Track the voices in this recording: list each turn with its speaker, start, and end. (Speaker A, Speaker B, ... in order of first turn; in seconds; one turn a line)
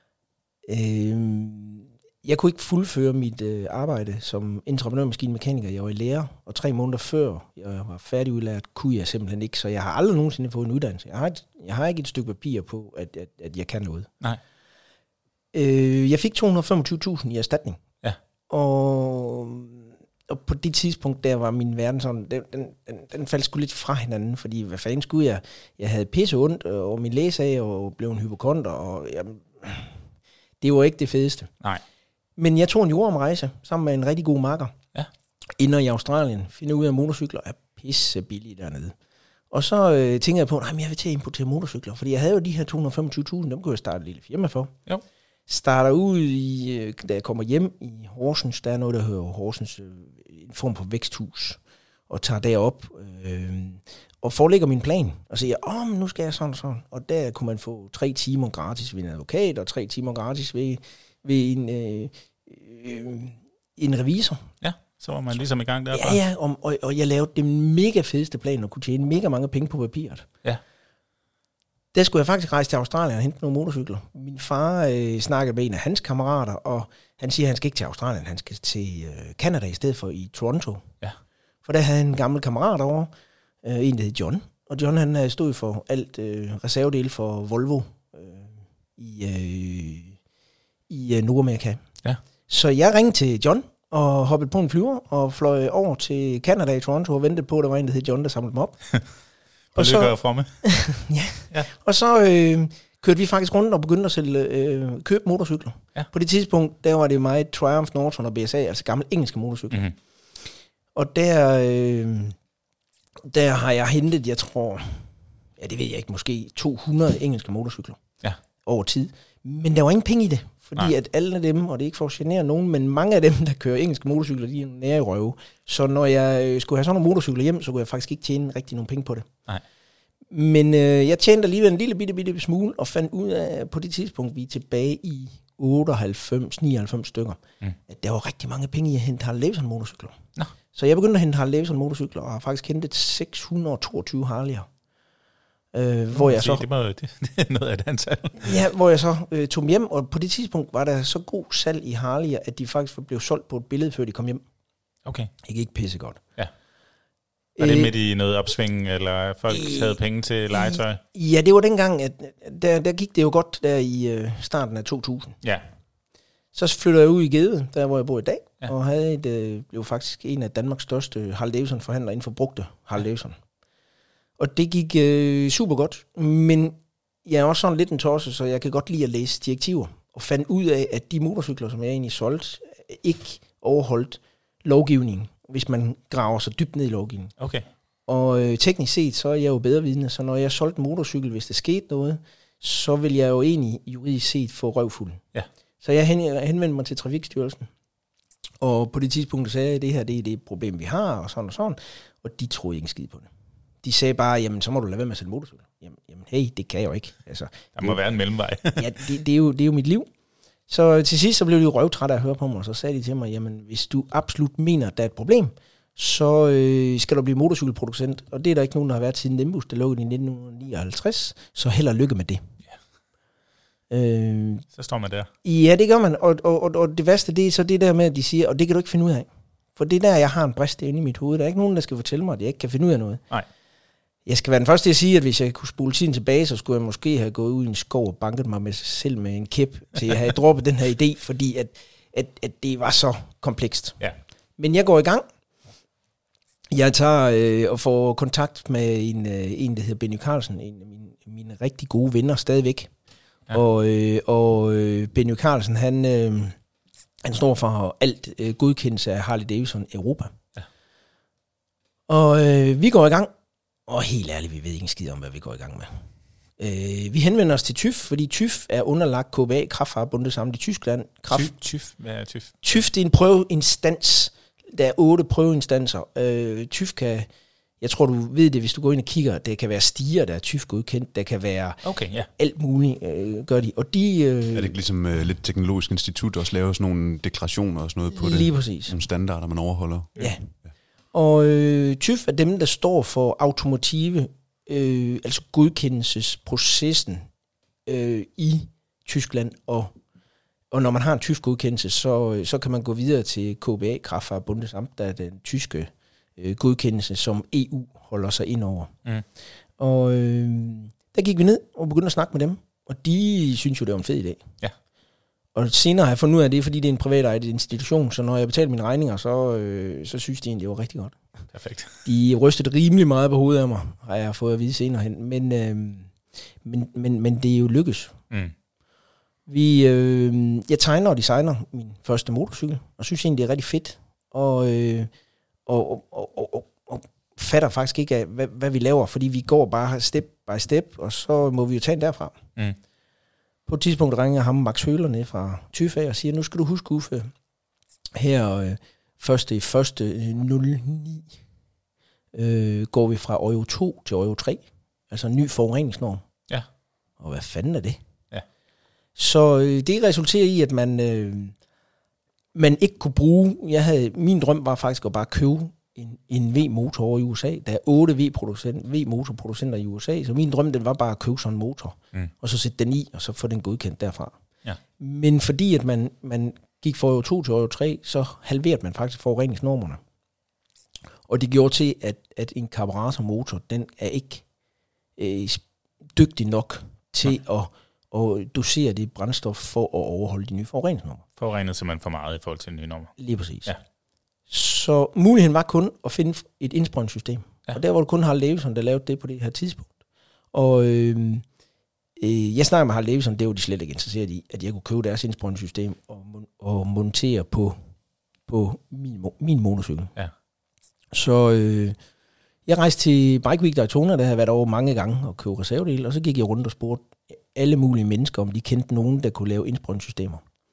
Speaker A: 0.7-14.1
Speaker A: 15.5-17.8
Speaker A: 18.5-29.9
Speaker A: 30.6-31.5
Speaker A: 32.4-34.7
Speaker A: 35.6-38.9
Speaker A: 39.5-44.7
Speaker A: 45.5-64.5
Speaker B: 64.6-66.2
Speaker A: 65.9-70.3
Speaker A: 71.9-80.8
Speaker A: 81.6-83.1
Speaker A: 83.6-90.2
Speaker A: 90.9-91.8
Speaker A: 92.5-98.8
Speaker B: 99.7-100.6
Speaker A: 99.7-109.8
Speaker A: 110.9-112.3
Speaker A: 113.3-118.0
Speaker A: 118.7-129.3
Speaker A: 130.3-140.2
Speaker A: 140.7-144.7
Speaker A: 145.7-146.6
Speaker B: 146.1-148.6
Speaker A: 148.4-154.4
Speaker B: 155.1-155.3
Speaker A: 155.4-156.2
Speaker A: 157.6-157.9
Speaker B: 157.6-161.0
Speaker A: 159.5-160.0
Speaker A: 160.5-165.4
Speaker A: 166.5-173.4
Speaker A: 174.4-187.3
Speaker B: 187.4-187.7
Speaker A: 188.1-195.2
Speaker A: 195.8-197.7
Speaker A: 198.6-203.3
Speaker A: 203.8-208.0
Speaker B: 207.8-208.9
Speaker A: 208.8-210.1
Speaker A: 210.7-222.4
Speaker A: 223.9-224.6
Speaker B: 224.7-225.3
Speaker A: 225.4-233.2
Speaker A: 234.2-243.9
Speaker A: 244.6-245.3
Speaker A: 246.7-252.9
Speaker A: 253.5-256.6
Speaker A: 257.2-260.3
Speaker A: 262.1-263.3
Speaker A: 263.9-266.0
Speaker A: 266.6-271.5
Speaker B: 271.3-272.8
Speaker A: 272.6-277.3
Speaker A: 277.8-281.8
Speaker B: 281.8-282.3
Speaker A: 282.4-284.7
Speaker C: 284.5-290.1
Speaker A: 288.1-288.9
Speaker A: 290.2-290.4
Speaker A: 291.1-297.3
Speaker A: 297.9-299.9
Speaker A: 300.7-308.9
Speaker A: 309.8-314.4
Speaker A: 315.5-321.1
Speaker B: 321.5-322.0
Speaker A: 322.0-328.1
Speaker A: 329.5-335.1
Speaker A: 335.6-342.4
Speaker A: 343.7-347.3
Speaker A: 348.1-351.3
Speaker A: 352.3-356.2
Speaker A: 357.2-358.0
Speaker A: 359.1-361.5
Speaker A: 362.5-374.3
Speaker A: 375.0-380.0
Speaker A: 381.3-384.4
Speaker A: 385.2-391.2
Speaker B: 391.4-393.1
Speaker A: 393.2-393.7
Speaker A: 394.5-399.9
Speaker A: 400.5-401.4
Speaker A: 402.2-407.8
Speaker A: 408.5-410.1
Speaker A: 411.1-411.9
Speaker A: 412.6-420.4